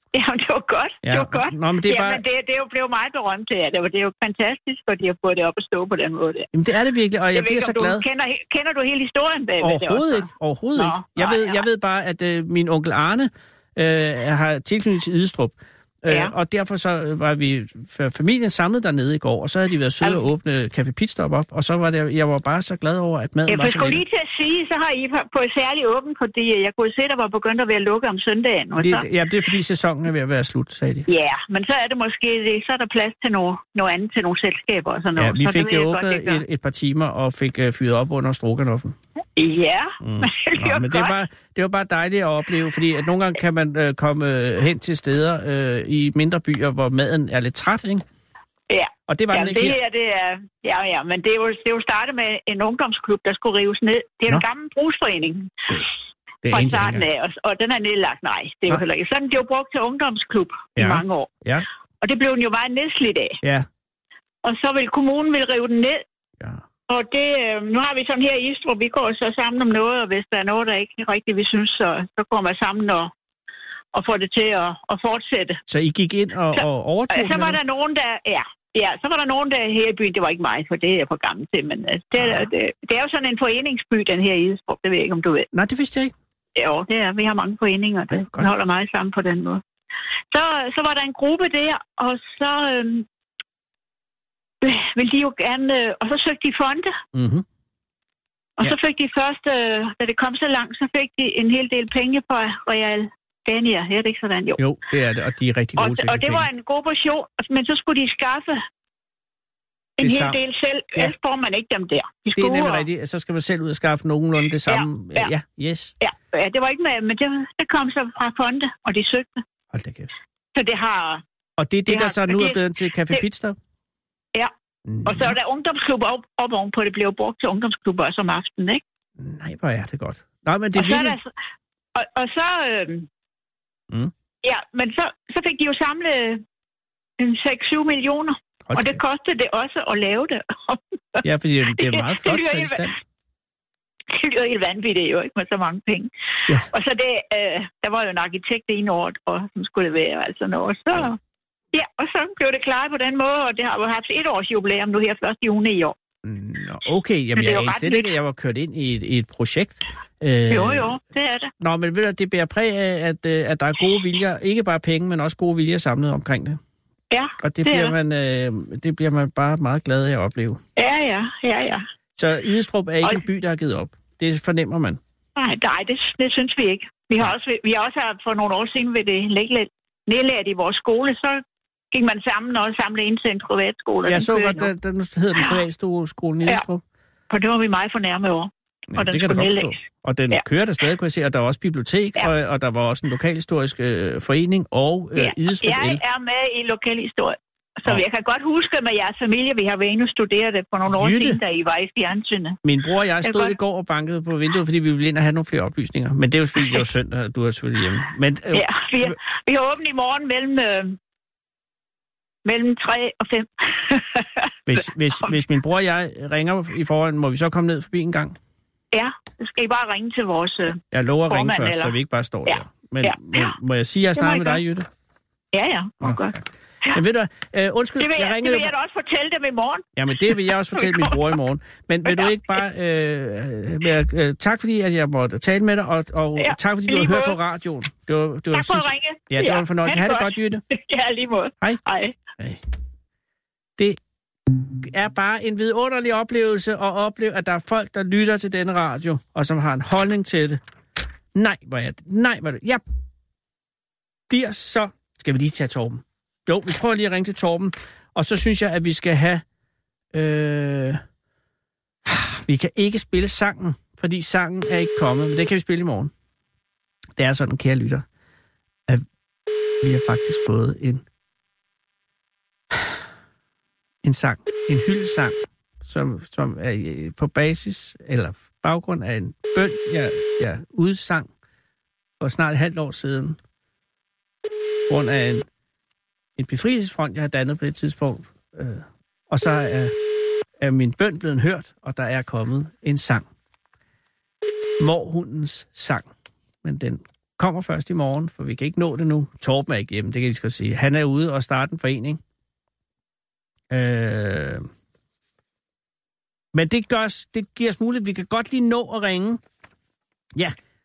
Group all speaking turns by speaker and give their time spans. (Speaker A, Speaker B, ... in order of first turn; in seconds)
Speaker A: 0.1-6.5, 7.3-11.6, 16.1-16.4, 23.5-29.1, 31.1-36.4, 39.4-41.2, 48.7-55.9, 56.5-61.3, 62.0-63.4, 64.4-66.0, 66.9-73.1, 73.9-75.6, 76.5-85.5, 86.6-89.6, 90.3-93.1, 94.6-96.9, 98.6-104.6, 105.8-108.7, 110.0-112.9, 114.7-115.3, 116.0-119.4, 120.5-121.2, 121.9-123.2, 125.1-128.8, 130.8-131.3, 131.9-133.1, 134.4-136.4, 137.2-141.2, 141.8-142.9, 144.1-146.1, 146.6-151.2, 151.7-156.0, 157.4-158.1, 160.5-161.5, 167.1-168.0, 170.8-171.8, 175.4-184.7, 185.4-185.6, 187.3-190.4, 195.2-202.6, 203.2-203.6, 206.6-206.8, 208.5-211.0, 212.4-215.4, 218.9-223.5, 224.2-224.6, 225.5-227.0, 228.0-231.4, 232.1-232.4, 236.4-237.4, 238.5-242.2
Speaker B: 1.0-2.2, 6.5-8.0, 9.6-24.0, 28.8-31.1, 35.2-39.0, 40.0-48.0, 49.1-49.8, 56.5-57.1, 60.8-61.7, 75.7-77.6, 82.2-82.5, 85.5-86.1, 88.1-88.5, 97.1-97.5, 104.6-106.5, 110.0-110.4, 112.4-116.0, 119.7-120.1, 121.6-123.6, 124.9-125.3, 129.2-131.2, 138.7-139.0, 141.2-143.0, 156.2-161.0, 161.6-166.6, 167.4-170.6, 172.2-175.0, 184.0-186.8, 188.9-196.0, 200.9-201.4, 202.6-209.2, 214.7-218.4, 220.9-224.9, 226.0-226.3, 226.9-228.7, 230.0-240.6, 244.5-250.6, 251.3-252.8, 254.3-259.4, 260.1-261.0, 262.1-266.1, 267.2-268.1, 269.8-271.0, 274.0-281.3, 282.2-283.4, 284.9-285.5, 286.4-289.9, 290.6-293.3, 294.8-296.1, 296.6-302.2, 303.7-304.7, 306.5-309.4